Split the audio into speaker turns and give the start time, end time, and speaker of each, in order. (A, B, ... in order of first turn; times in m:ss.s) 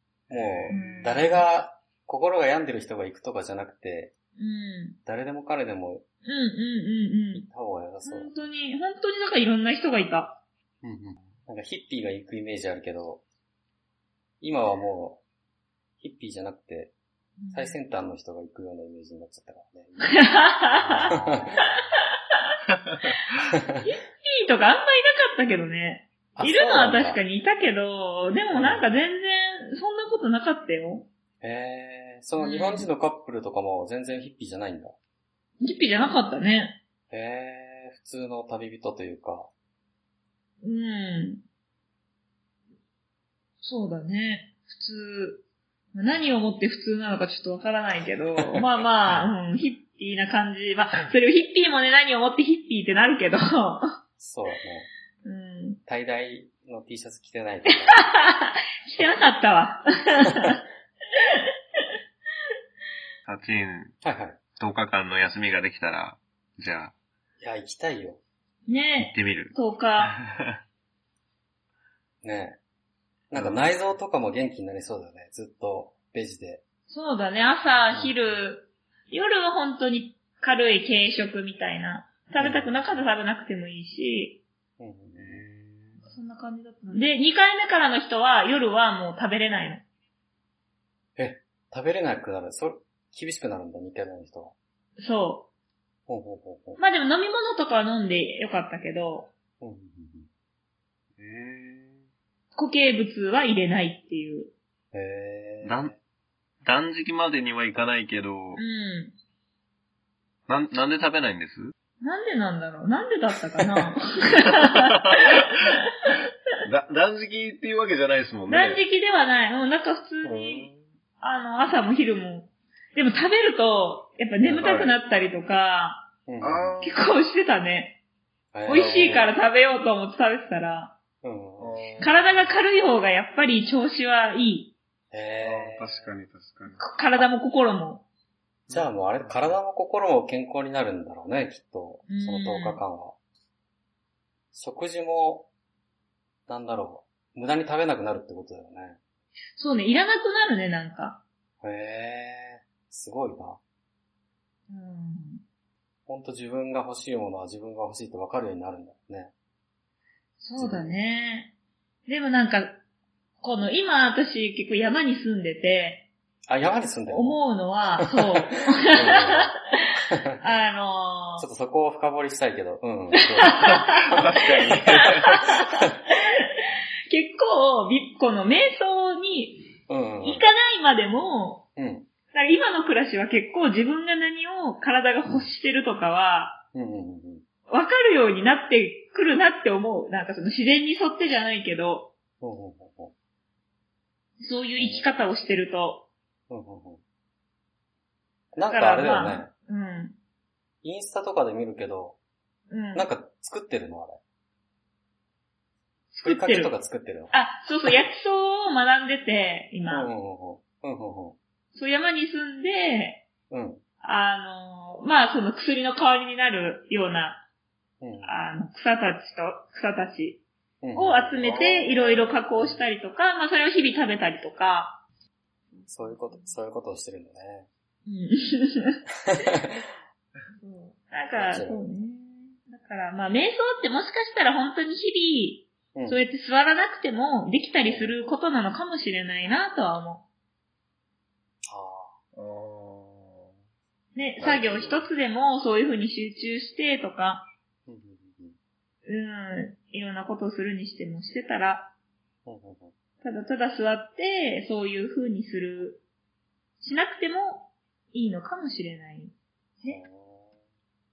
0:00.3-0:01.0 A
0:00.3-0:04.1 B
0:00.7-0:01.5 C
0:04.4-0:05.0 C
0:05.0-0:06.0 B
0:06.2-0:07.5 C
0:07.3-0:08.4 B
0:08.0-0:10.4 C
0:10.8-0:13.2 B
0:14.4-0:15.2 B
0:16.0-0:16.9 B
0:17.4-0:17.8 C
0:17.5-0:21.8 B
0:20.0-0:21.1 C
0:21.0-0:21.4 A
0:22.8-0:23.1 A
0:23.8-0:31.1 C
0:26.4-0:27.2 B
0:28.5-0:28.9 B
0:31.4-0:34.9 B
0:32.4-0:32.9 C
0:35.6-0:36.8 C
0:37.1-0:39.5 B
0:40.6-0:41.4 C
0:43.6-0:53.8 C
0:46.1-0:46.4 B
0:54.2-0:54.9 B
0:55.2-0:55.8 C
0:55.9-0:58.0 B
0:57.8-1:00.6 C
1:03.3-1:03.9 A
1:04.0-1:04.4 B
1:04.5-1:06.9 A
1:07.4-1:08.2 B
1:08.6-1:10.1 C
1:09.0-1:10.5 A
1:12.2-1:12.6 B
1:13.3-1:13.7 A
1:13.3-1:16.6 B
1:16.9-1:24.4 C
1:22.4-1:22.7 B
1:22.8-1:23.0 A
1:24.8-1:25.4 B
1:25.2-1:26.0 A
1:26.0-1:29.8 C
1:31.2-1:34.5 B
1:35.0-1:35.5 C
1:36.1-1:36.8 B
1:36.8-1:39.3 C
1:39.6-1:40.3 B
1:41.2-1:42.0 A
1:42.5-1:44.5 C
1:44.9-1:45.9 B
1:45.6-1:45.9 A
1:46.6-1:48.6 A
1:48.6-1:49.2 C
1:50.5-1:51.7 A
1:52.0-1:54.8 C
1:53.6-1:53.8 A
1:54.6-1:55.4 A
1:55.3-1:56.1 C
1:56.7-1:58.8 A
1:58.5-2:00.7 C
2:00.2-2:00.8 A
2:01.2-2:06.1 C
2:04.4-2:04.7 B
2:04.6-2:05.0 A
2:06.3-2:06.8 B
2:06.4-2:07.0 A
2:06.8-2:08.0 C
2:08.5-2:09.3 B
2:08.6-2:10.9 C
2:08.7-2:09.3 A
2:11.2-2:11.8 B
2:11.6-2:12.7 A
2:12.0-2:14.7 C
2:15.1-2:16.1 B
2:15.4-2:17.2 A
2:16.8-2:18.0 C
2:18.7-2:19.6 A
2:18.7-2:23.2 B
2:22.1-2:22.8 C
2:24.5-2:25.5 B
2:26.5-2:29.0 B
2:29.6-2:31.2 C
2:31.6-2:33.6 B
2:34.7-2:35.4 C
2:36.1-2:39.3 B
2:40.4-2:41.5 C
2:40.6-2:40.9 B
2:42.1-2:42.8 C
2:43.4-2:46.1 C
2:46.5-2:47.4 B
2:47.1-2:49.4 C
2:48.9-2:49.6 B
2:50.4-2:51.5 C
2:51.4-2:54.3 B
2:53.4-2:54.1 C
2:53.6-2:55.4 A
2:54.7-2:55.9 C
2:57.1-3:01.6 C
2:59.9-3:00.4 B
3:01.8-3:02.1 B
3:02.3-3:06.6 C
3:06.7-3:07.4 B
3:07.7-3:12.1 C
3:12.4-3:13.1 B
3:14.4-3:16.1 C
3:14.8-3:15.1 B
3:16.5-3:17.0 B
3:18.5-3:19.5 B
3:18.6-3:20.2 C
3:20.8-3:22.2 B
3:22.7-3:23.1 C
3:22.9-3:24.2 B
3:26.1-3:26.8 C
3:26.2-3:27.3 B
3:27.3-3:30.1 C
3:29.9-3:31.4 B
3:31.7-3:33.2 C
3:33.5-3:33.8 B
3:34.0-3:37.4 C
3:38.0-3:38.3 B
3:38.2-3:40.4 C
3:40.8-3:41.4 B
3:40.9-3:45.0 C
3:41.4-3:42.4 A
3:45.7-3:46.6 C
3:45.9-3:47.7 B
3:48.0-3:49.0 C
3:50.5-4:00.2 C
3:51.3-3:51.8 B
3:55.9-3:56.2 B
3:57.8-3:58.2 B
4:01.7-4:02.1 B
4:02.4-4:03.5 A
4:04.1-4:07.5 C
4:04.4-4:05.0 B
4:07.9-4:08.6 B
4:09.0-4:11.9 C
4:12.4-4:12.9 B
4:13.2-4:16.0 C
4:16.8-4:20.0 C
4:19.9-4:20.6 B